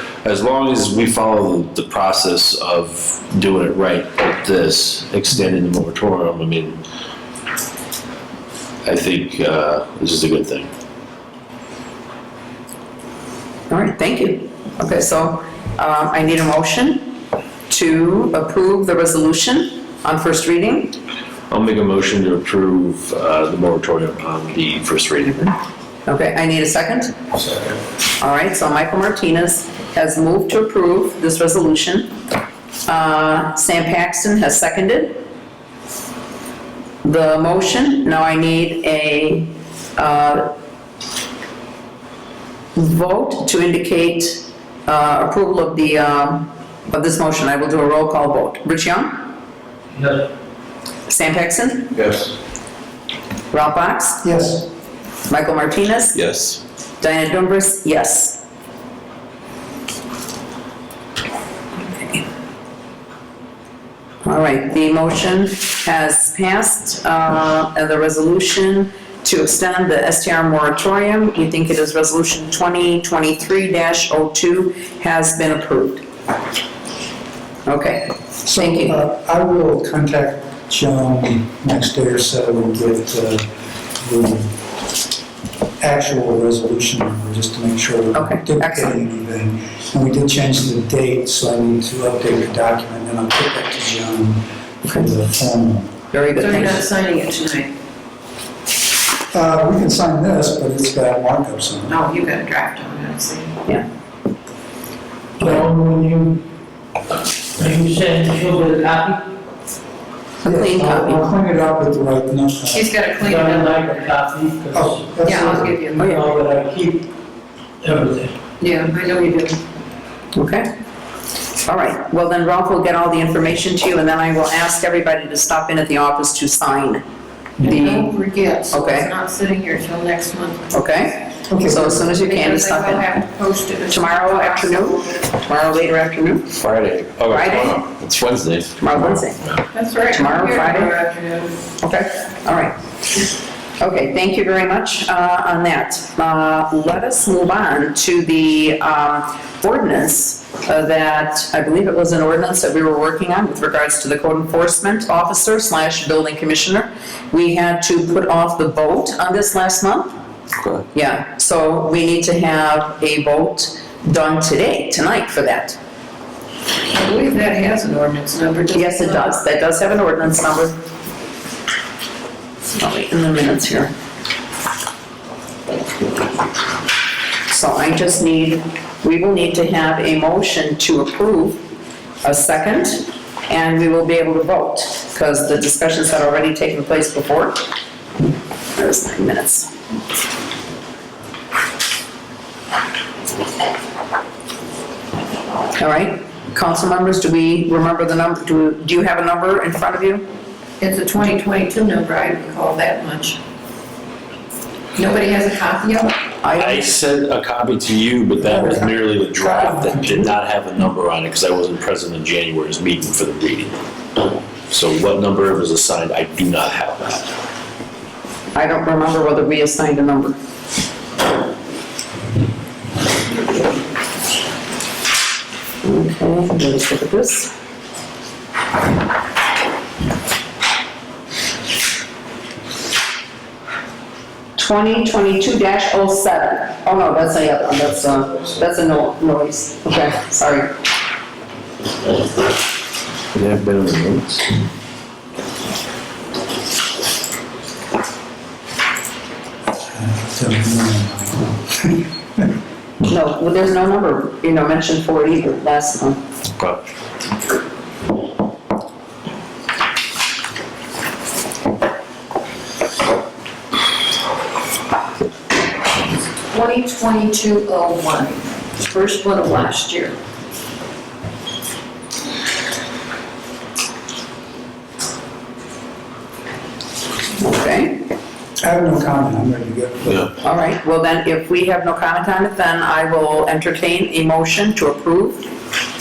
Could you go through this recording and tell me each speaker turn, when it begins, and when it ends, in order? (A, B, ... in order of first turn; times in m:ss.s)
0:00.2-0:06.8 A
0:08.8-0:10.7 A
0:13.7-0:17.1 B
0:17.7-0:21.0 B
0:21.5-0:25.5 A
0:26.1-0:27.2 B
0:28.2-0:32.1 B
0:32.9-0:35.2 B
0:37.0-0:40.5 B
0:42.8-0:49.2 B
0:50.0-0:50.3 C
0:51.1-0:52.0 B
0:52.0-0:52.3 A
0:53.5-0:54.3 B
0:54.2-0:54.7 D
0:55.3-0:56.2 B
0:56.1-0:56.6 A
0:57.0-0:58.4 B
1:04.2-1:16.0 B
1:17.7-1:19.0 B
1:18.5-1:23.5 D
1:24.0-1:24.6 D
1:25.8-1:36.0 D
1:28.1-1:29.0 B
1:36.1-1:36.8 B
1:36.4-1:37.7 E
1:39.3-1:42.0 D
1:41.9-1:43.6 E
1:45.4-1:46.4 C
1:47.6-1:49.2 C
1:50.4-1:51.3 B
1:50.4-1:52.9 D
1:52.7-1:54.0 E
1:53.2-1:57.1 C
1:54.7-1:55.7 D
1:55.2-1:56.1 E
1:55.9-1:56.3 B
1:57.8-1:58.4 C
1:58.6-1:59.6 E
2:00.3-2:00.7 B
2:01.7-2:07.0 B
2:07.6-2:08.1 B
2:07.6-2:10.8 E
2:08.7-2:09.1 B
2:10.7-2:13.2 B
2:11.5-2:12.1 D
2:12.0-2:15.0 E
2:13.9-2:16.6 B
2:16.6-2:19.6 A
2:17.3-2:17.8 B
2:18.8-2:19.4 B
2:19.7-2:21.6 E
2:20.1-2:20.9 B
2:21.8-2:22.8 B
2:23.8-2:40.1 B
2:40.6-2:40.8 A
2:40.9-2:45.8 B
2:46.9-2:49.4 E
2:48.7-2:50.8 B
2:52.8-2:53.9 B
2:57.5-3:01.6 B
3:02.2-3:07.7 B
3:08.8-3:09.7 B
3:15.8-3:20.2 B
3:20.8-3:23.4 E
3:25.0-3:26.2 E
3:26.4-3:26.9 B
3:26.5-3:33.8 A
3:28.4-3:30.4 D
3:34.7-3:37.2 A
3:38.5-3:40.4 B
3:45.8-3:47.5 B
3:54.6-4:00.7 B
4:03.3-4:04.4 A
4:09.9-4:12.0 D
4:13.0-4:16.2 B
4:26.5-4:30.2 E
4:37.4-4:38.0 B
4:38.6-4:40.3 D
4:40.4-4:45.5 B